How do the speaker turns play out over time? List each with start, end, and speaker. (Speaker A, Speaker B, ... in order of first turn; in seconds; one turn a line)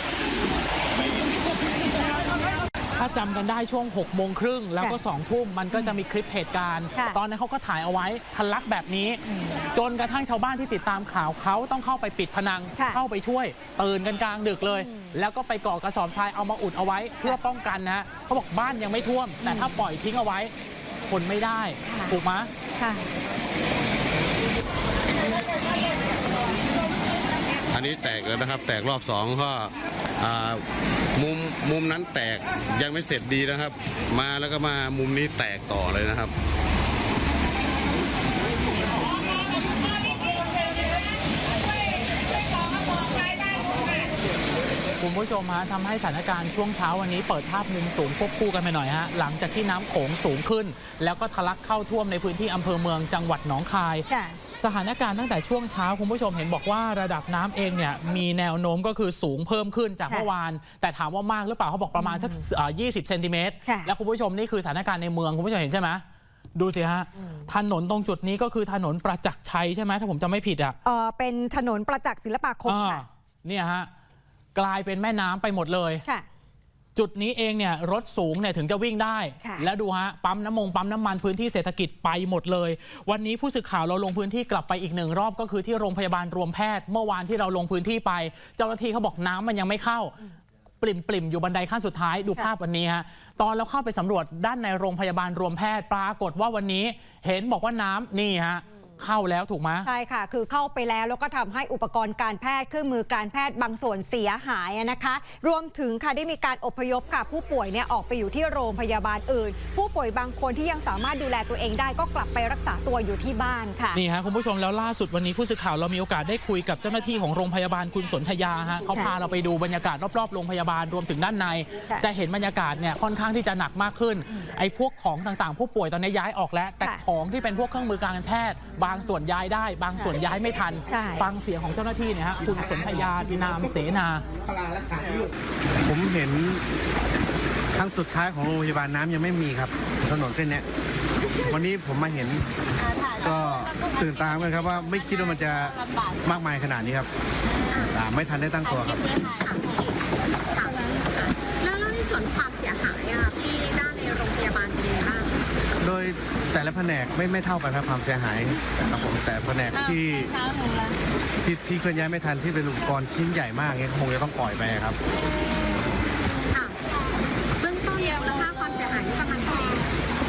Speaker A: 3.0-20.5
Speaker B: 9.3-9.6
Speaker B: 14.7-15.1
Speaker B: 19.4-19.7
Speaker A: 21.0-22.5
Speaker B: 21.9-22.2
Speaker B: 22.8-23.0
Speaker C: 27.7-30.6
Speaker C: 31.1-36.3
Speaker A: 45.0-54.0
Speaker B: 54.1-54.4
Speaker A: 54.6-66.0
Speaker B: 62.0-62.4
Speaker B: 63.6-63.9
Speaker A: 66.5-70.8
Speaker B: 70.8-73.0
Speaker A: 72.6-73.9
Speaker A: 74.5-76.0
Speaker A: 76.9-90.2
Speaker B: 79.4-79.7
Speaker A: 90.8-99.9
Speaker B: 99.8-114.0
Speaker A: 113.9-134.2
Speaker B: 130.9-131.3
Speaker D: 135.8-136.6
Speaker D: 137.7-140.6
Speaker D: 141.5-142.5
Speaker D: 143.2-147.1
Speaker E: 147.7-147.9
Speaker D: 147.9-149.2
Speaker E: 149.4-150.0
Speaker E: 150.5-155.4
Speaker D: 155.8-160.4
Speaker D: 161.4-165.0
Speaker E: 167.6-169.9